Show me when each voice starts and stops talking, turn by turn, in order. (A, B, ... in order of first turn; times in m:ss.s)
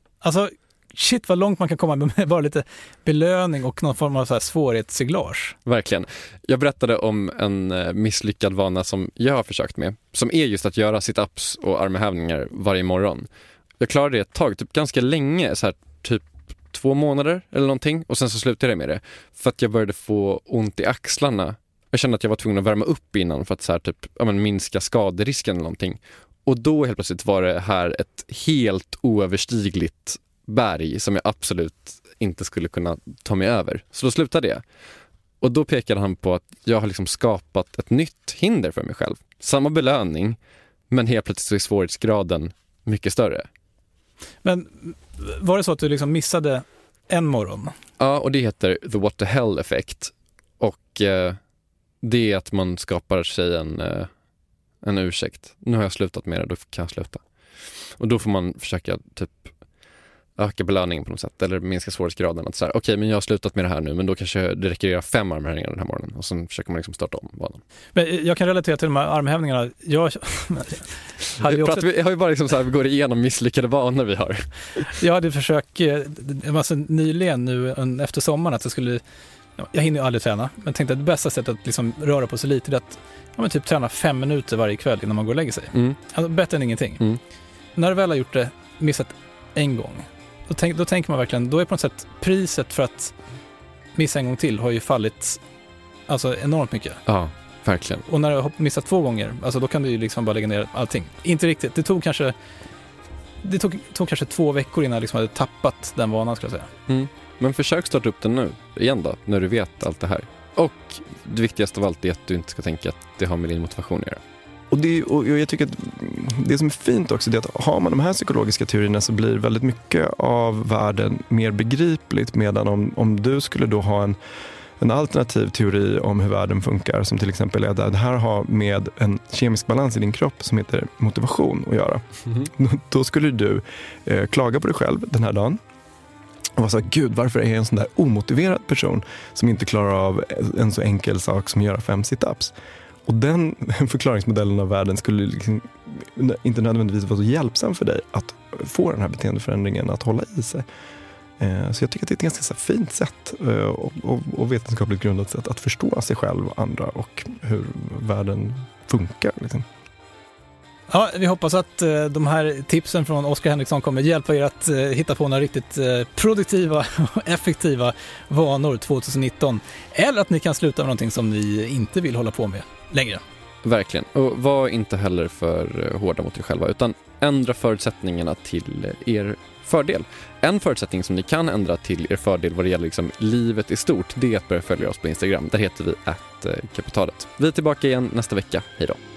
0:00.2-0:05.6 A
0:05.7-0:13.3 B
0:13.8-0:34.6 B
0:35.4-0:40.4 B
0:40.9-0:43.5 B
0:44.4-0:47.8 A
0:48.0-0:51.4 B
0:52.0-0:54.1 B
0:54.8-0:57.2 B
0:58.0-0:59.5 B
1:00.4-1:07.6 B
1:08.0-1:10.8 A
1:11.4-1:14.5 B
1:11.4-1:11.9 A
1:15.0-1:19.0 A
1:19.6-1:27.0 A
1:27.8-1:33.2 A
1:34.0-1:35.4 A
1:36.1-1:37.0 A
1:37.1-1:38.0 B
1:38.1-1:42.3 A
1:43.4-1:46.7 A
1:46.9-1:54.2 B
1:54.7-2:04.2 C
2:04.8-2:15.6 C
2:16.6-2:22.5 C
2:23.1-2:30.7 C
2:31.4-2:39.7 C
2:40.9-2:53.2 A
2:53.6-3:09.0 B